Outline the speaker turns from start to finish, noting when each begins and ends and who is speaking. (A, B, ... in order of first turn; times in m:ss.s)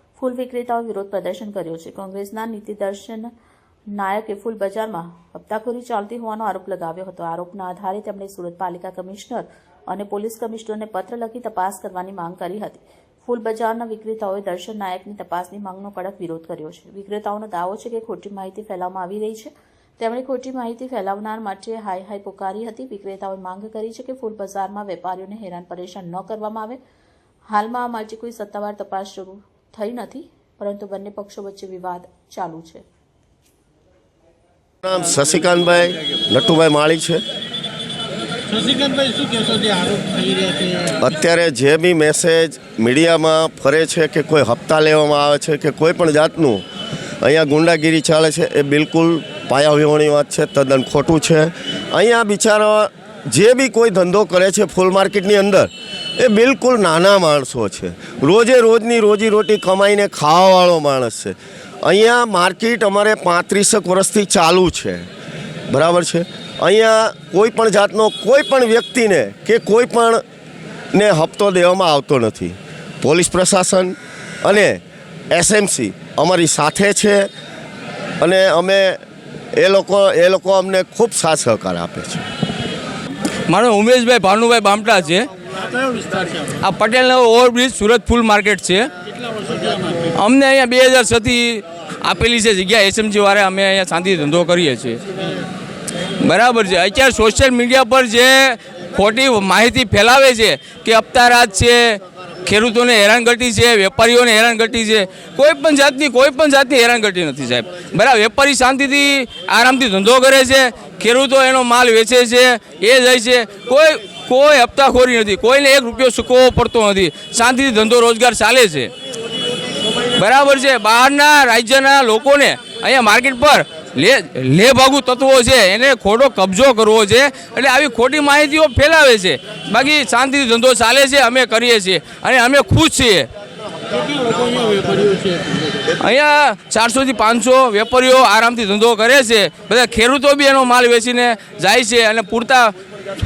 0:00.2-0:03.3 A
0:03.9-0:26.8 A
0:27.5-0:32.8 A
0:34.8-0:37.2 B
0:38.5-0:41.0 C
0:41.0-0:46.6 B
0:47.2-1:05.1 B
1:05.7-1:10.2 B
1:10.9-1:14.8 B
1:15.3-1:17.3 B
1:18.2-1:19.0 B
1:19.6-1:22.2 B
1:23.5-1:25.3 D
1:25.6-1:26.6 C
1:26.6-1:28.9 D
1:29.2-1:30.1 C
1:30.1-1:35.0 D
1:36.2-1:58.9 D
2:00.2-2:13.3 D
2:14.0-2:15.8 C
2:16.0-2:22.7 D